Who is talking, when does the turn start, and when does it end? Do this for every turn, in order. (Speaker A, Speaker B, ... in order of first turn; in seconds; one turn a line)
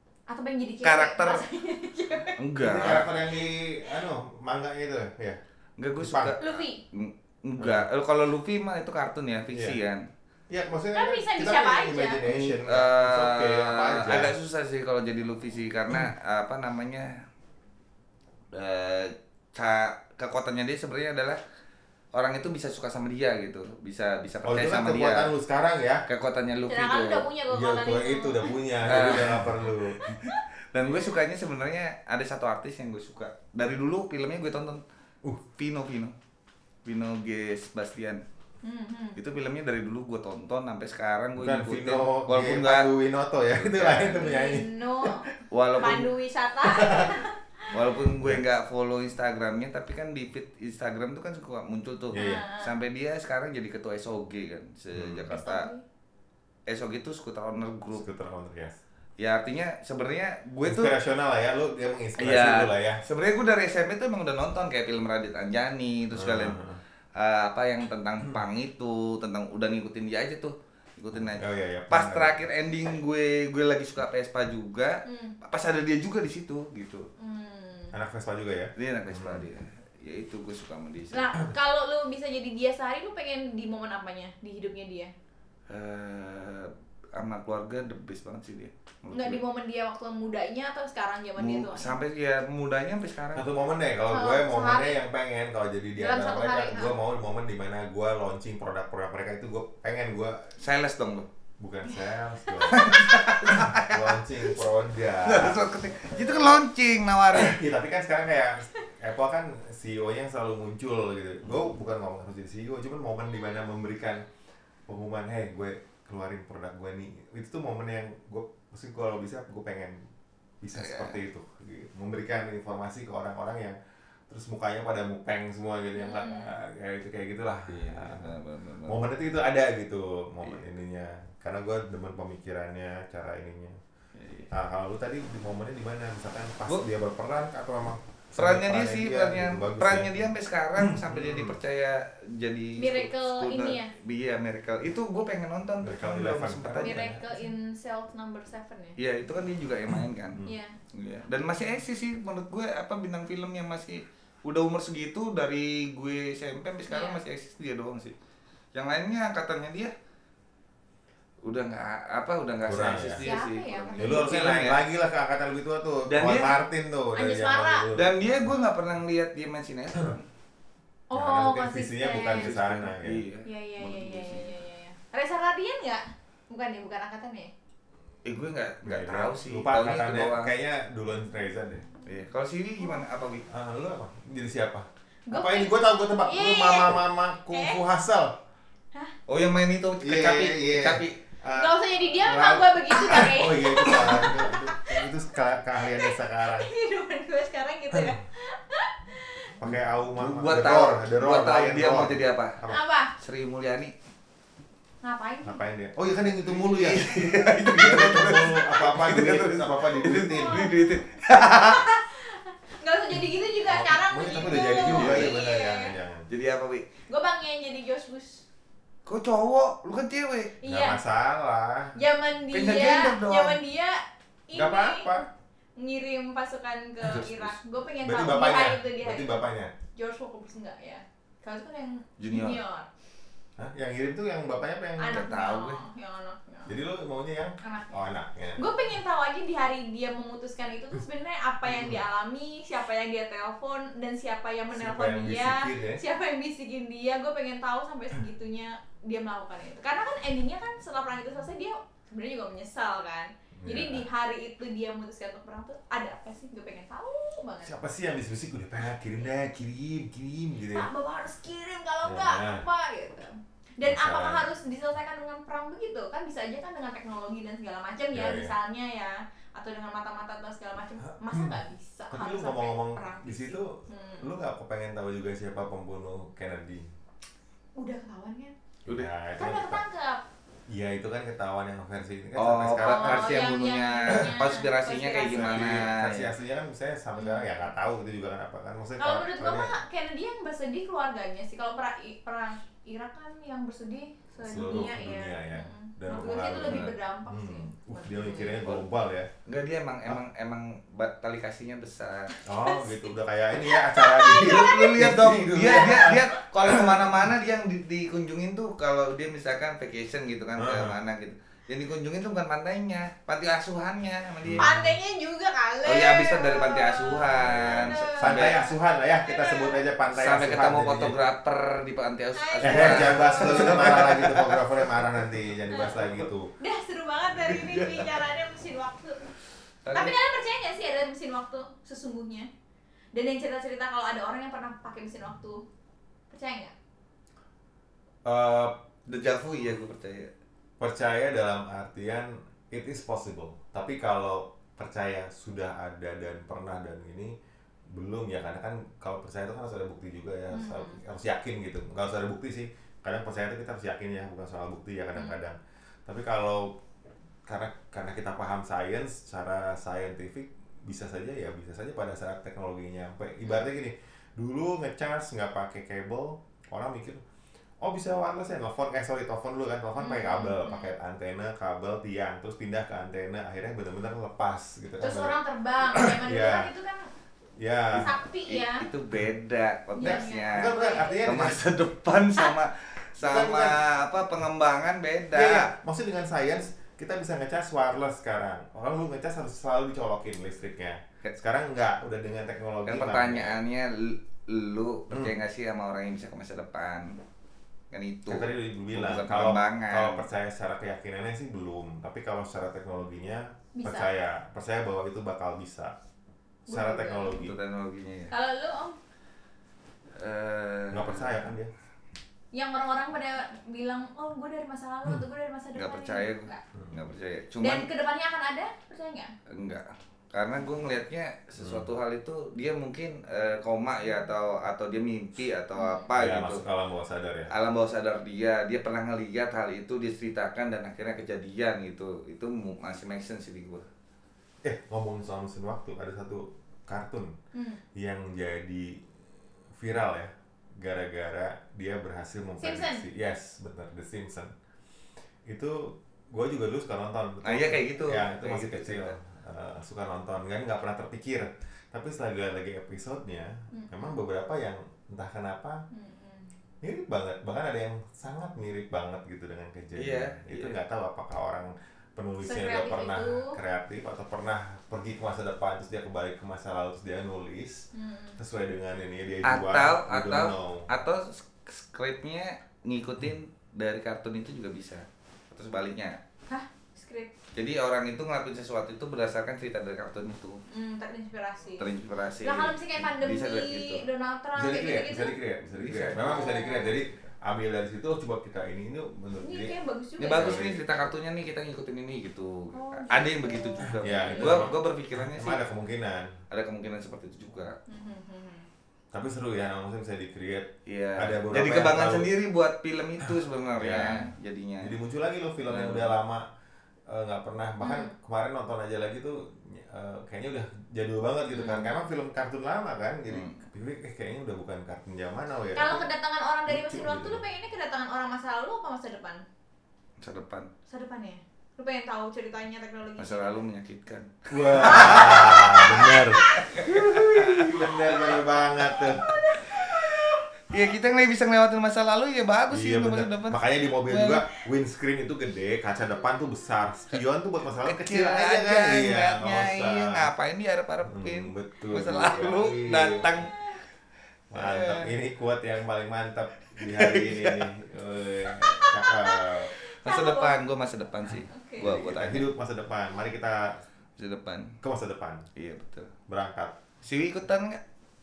Speaker A: 0.3-2.4
Speaker B: 0.8-1.4
Speaker B: 2.4-3.1
Speaker C: 2.6-5.4
Speaker B: 5.8-10.1
Speaker C: 6.0-6.4
Speaker A: 6.4-6.8
Speaker C: 7.6-7.9
Speaker C: 9.5-9.8
Speaker C: 10.5-14.3
Speaker A: 10.9-12.2
Speaker B: 12.2-17.2
Speaker B: 18.5-21.4
Speaker B: 22.1-25.3
Speaker C: 24.4-26.0
Speaker B: 26.1-27.2
Speaker A: 26.7-29.4
Speaker C: 27.5-30.0
Speaker B: 28.8-30.2
Speaker A: 30.0-30.4
Speaker B: 30.7-34.8
Speaker B: 35.5-36.1
Speaker B: 36.8-38.2
Speaker A: 38.6-39.2
Speaker B: 39.2-42.9
Speaker C: 41.4-45.2
Speaker B: 43.5-44.3
Speaker A: 44.1-47.7
Speaker B: 45.5-46.1
Speaker C: 46.6-47.2
Speaker B: 47.7-55.7
Speaker C: 52.1-52.4
Speaker A: 52.1-52.7
Speaker C: 54.9-55.3
Speaker A: 55.3-55.8
Speaker B: 56.7-58.0
Speaker C: 57.9-58.8
Speaker B: 59.2-60.9
Speaker C: 60.6-63.0
Speaker B: 62.2-66.6
Speaker C: 66.1-66.8
Speaker B: 67.2-77.1
Speaker C: 71.1-72.3
Speaker A: 75.0-75.3
Speaker A: 77.2-77.9
Speaker C: 77.9-79.5
Speaker B: 78.8-81.3
Speaker A: 81.1-85.1
Speaker B: 85.7-89.4
Speaker A: 89.1-92.0
Speaker B: 91.4-93.4
Speaker C: 93.3-100.5
Speaker A: 94.1-95.0
Speaker A: 96.0-96.9
Speaker B: 100.6-101.3
Speaker C: 101.6-106.2
Speaker A: 101.9-102.9
Speaker B: 102.7-104.2
Speaker B: 105.2-107.6
Speaker C: 107.3-114.2
Speaker C: 114.9-120.0
Speaker C: 120.6-123.8
Speaker B: 120.7-121.2
Speaker C: 124.3-133.8
Speaker A: 126.0-126.5
Speaker B: 127.7-129.0
Speaker B: 134.2-134.5
Speaker C: 134.5-141.6
Speaker B: 138.4-147.2
Speaker A: 142.8-143.9
Speaker C: 145.8-147.4
Speaker A: 146.8-149.0
Speaker B: 149.0-150.4
Speaker A: 150.4-150.7
Speaker B: 150.9-158.1
Speaker A: 156.9-157.2
Speaker B: 158.7-159.9
Speaker B: 161.4-164.8
Speaker C: 162.7-163.2
Speaker A: 163.2-164.6
Speaker C: 164.0-168.5
Speaker B: 166.1-166.5
Speaker A: 167.1-167.9
Speaker B: 167.9-170.2
Speaker A: 171.1-172.5
Speaker C: 171.1-173.2
Speaker B: 172.3-174.5
Speaker A: 173.4-177.5
Speaker B: 178.2-180.5
Speaker C: 178.8-181.9
Speaker B: 182.1-183.4
Speaker C: 183.5-188.3
Speaker A: 185.3-187.8
Speaker B: 189.3-191.2
Speaker C: 190.0-196.7
Speaker A: 191.6-195.1
Speaker A: 195.8-199.5
Speaker C: 199.6-202.8
Speaker B: 200.2-202.6
Speaker A: 202.7-203.1
Speaker B: 203.2-203.9
Speaker A: 205.0-205.6
Speaker C: 205.4-210.7
Speaker B: 206.5-211.8
Speaker A: 210.1-215.9
Speaker C: 213.6-216.3
Speaker B: 214.8-215.3
Speaker B: 216.3-216.9
Speaker A: 217.1-218.4
Speaker B: 219.1-220.6
Speaker A: 220.6-221.0
Speaker C: 220.6-221.9
Speaker A: 221.9-225.1
Speaker B: 222.5-223.6
Speaker C: 224.5-225.3
Speaker A: 225.8-229.3
Speaker B: 227.0-227.6
Speaker C: 228.0-229.7
Speaker A: 229.9-232.9
Speaker B: 232.2-232.6
Speaker C: 233.6-235.3
Speaker A: 235.0-236.8
Speaker B: 235.1-235.8
Speaker C: 236.7-238.7
Speaker A: 237.6-238.0
Speaker A: 238.6-257.7
Speaker C: 241.6-242.0
Speaker C: 244.7-246.0
Speaker C: 253.6-254.0
Speaker C: 257.6-260.9
Speaker A: 260.7-274.3
Speaker C: 262.0-262.6
Speaker C: 263.8-264.4
Speaker C: 268.1-268.5
Speaker C: 271.1-271.6
Speaker C: 272.1-276.9
Speaker A: 277.8-278.5
Speaker C: 278.9-279.8
Speaker A: 279.4-280.2
Speaker C: 280.7-283.5
Speaker B: 282.4-286.3
Speaker A: 282.8-285.9
Speaker C: 285.3-289.7
Speaker A: 287.1-287.6
Speaker A: 289.0-298.7
Speaker C: 294.4-299.3
Speaker B: 299.4-302.3
Speaker C: 302.4-307.3
Speaker A: 302.6-303.0
Speaker A: 303.6-305.1
Speaker B: 304.3-314.8
Speaker C: 310.6-311.0
Speaker C: 314.4-314.9
Speaker A: 314.6-319.8
Speaker B: 315.8-318.6
Speaker C: 317.3-321.1
Speaker B: 320.1-325.1
Speaker A: 322.3-324.1
Speaker C: 322.6-326.5
Speaker B: 325.8-326.2
Speaker A: 326.6-329.3
Speaker B: 327.4-328.1
Speaker B: 329.8-330.1
Speaker A: 329.9-332.5
Speaker A: 333.1-335.6
Speaker A: 336.3-336.7
Speaker C: 338.2-338.8
Speaker B: 339.1-340.3
Speaker C: 340.8-347.3
Speaker C: 347.9-356.8
Speaker A: 350.5-351.0
Speaker A: 355.1-355.4
Speaker C: 357.4-367.2
Speaker C: 367.8-376.7
Speaker A: 370.0-370.9
Speaker A: 375.0-377.1
Speaker C: 377.6-378.1
Speaker A: 377.9-378.9
Speaker B: 378.4-385.7
Speaker A: 379.9-381.2
Speaker C: 380.0-381.6
Speaker C: 383.2-383.8
Speaker C: 385.3-393.6
Speaker B: 392.9-397.2
Speaker C: 395.1-395.3
Speaker B: 397.9-400.3
Speaker C: 398.3-405.9
Speaker A: 403.7-404.1
Speaker C: 406.6-407.6
Speaker A: 406.7-407.4
Speaker B: 407.3-408.3
Speaker A: 408.3-409.0
Speaker B: 410.1-411.4
Speaker C: 410.9-411.7
Speaker A: 412.5-416.6
Speaker B: 415.8-417.9
Speaker A: 417.6-419.3
Speaker B: 419.5-426.6
Speaker C: 421.6-421.9
Speaker A: 425.7-426.1
Speaker C: 426.1-427.5
Speaker B: 427.5-433.8
Speaker C: 434.6-437.3
Speaker A: 437.5-437.8
Speaker C: 437.9-439.1
Speaker C: 439.8-444.5
Speaker A: 442.6-443.0
Speaker C: 445.4-455.8
Speaker B: 447.4-449.1
Speaker A: 453.7-454.2
Speaker A: 455.9-456.5
Speaker C: 456.8-470.9
Speaker B: 459.9-460.8
Speaker A: 462.4-463.6
Speaker A: 467.9-468.4
Speaker B: 469.4-476.2
Speaker A: 476.5-477.3
Speaker B: 477.5-480.6
Speaker A: 480.7-481.9
Speaker B: 481.8-484.0
Speaker A: 482.4-485.4
Speaker C: 484.6-489.7
Speaker B: 485.8-486.4
Speaker A: 486.2-486.9
Speaker A: 489.4-490.7
Speaker B: 490.2-495.6
Speaker C: 490.3-490.8
Speaker A: 492.7-494.7
Speaker C: 493.8-496.3
Speaker B: 496.5-497.8
Speaker A: 497.9-498.7
Speaker C: 499.1-502.3
Speaker B: 500.9-504.9
Speaker C: 503.8-504.3
Speaker C: 504.8-506.4
Speaker B: 505.7-506.1
Speaker C: 507.1-516.1
Speaker A: 507.8-508.1
Speaker A: 511.5-511.9
Speaker B: 513.3-513.6
Speaker A: 515.7-519.4
Speaker C: 516.7-517.4
Speaker B: 520.2-520.7
Speaker A: 520.9-523.6
Speaker B: 523.2-528.4
Speaker C: 524.5-529.2
Speaker A: 524.8-526.3
Speaker A: 528.8-530.8
Speaker B: 529.6-534.4
Speaker C: 532.7-540.3
Speaker B: 537.8-543.5
Speaker C: 541.0-543.3
Speaker B: 544.5-545.1
Speaker C: 544.5-549.7
Speaker B: 546.8-547.7
Speaker A: 549.1-550.6
Speaker B: 550.0-552.5
Speaker A: 551.5-551.9
Speaker C: 551.8-553.8
Speaker B: 554.2-554.8
Speaker C: 554.8-555.5
Speaker B: 555.5-556.1
Speaker C: 556.3-556.8
Speaker B: 557.0-557.8